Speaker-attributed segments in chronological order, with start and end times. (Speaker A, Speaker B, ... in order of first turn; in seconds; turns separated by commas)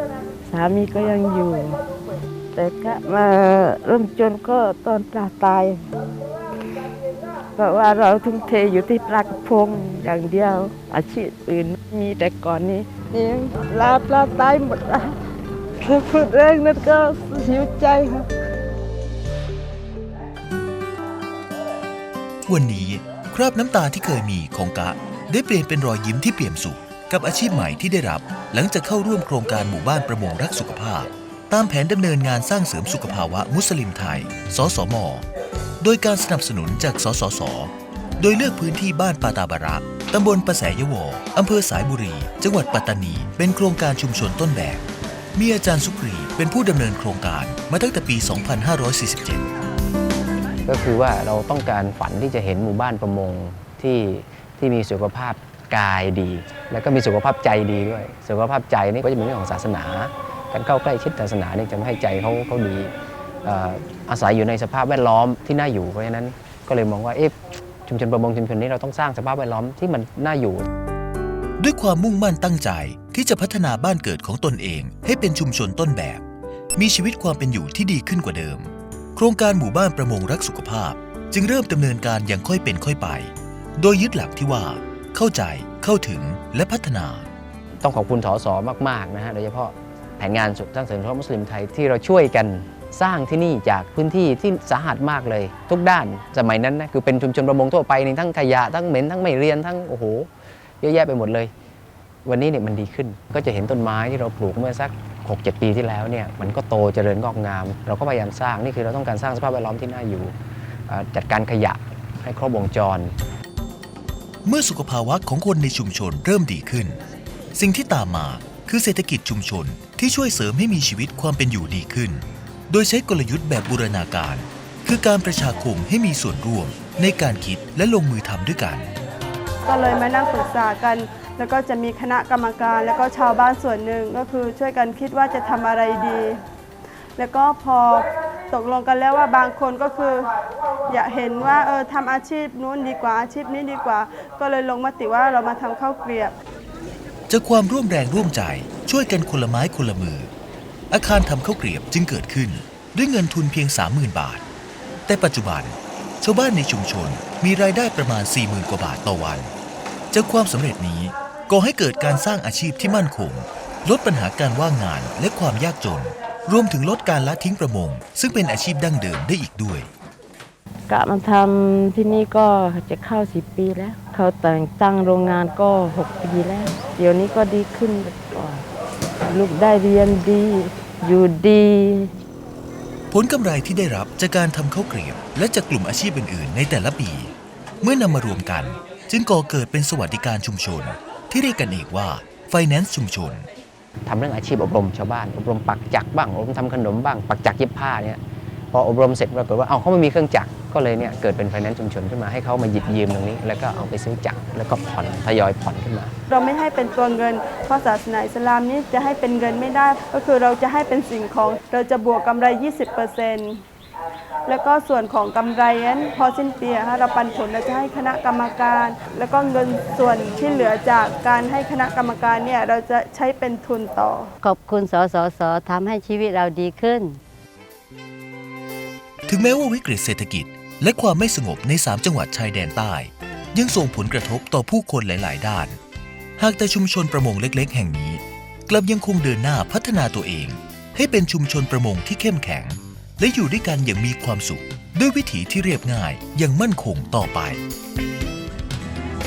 Speaker A: 0.4-1.8, Speaker A: 2.5-5.8, Speaker A: 7.5-15.2, Speaker A: 15.8-18.2, Speaker B: 22.5-35.2, Speaker B: 35.8-44.8, Speaker B: 45.3-49.5, Speaker C: 50.6-62.9, Speaker C: 63.4-67.3, Speaker C: 67.8-70.6, Speaker B: 71.6-76.2, Speaker B: 76.8-87.2, Speaker C: 87.8-100.3, Speaker C: 100.8-101.5, Speaker C: 102.2-110.3, Speaker C: 110.9-113.1, Speaker B: 114.4-117.0, Speaker B: 117.5-128.9, Speaker D: 129.7-136.4, Speaker D: 137.2-140.3, Speaker D: 140.9-146.3, Speaker B: 147.3-150.3, Speaker B: 150.9-154.4, Speaker B: 155.1-159.5, Speaker B: 160.1-169.9, Speaker A: 170.9-178.7, Speaker A: 179.2-182.1, Speaker B: 183.1-193.5, Speaker C: 194.1-198.2, Speaker C: 198.7-206.1, Speaker D: 206.3-213.6, Speaker D: 214.5-224.3, Speaker E: 224.4-227.2, Speaker B: 229.2-235.8, Speaker B: 236.4-247.6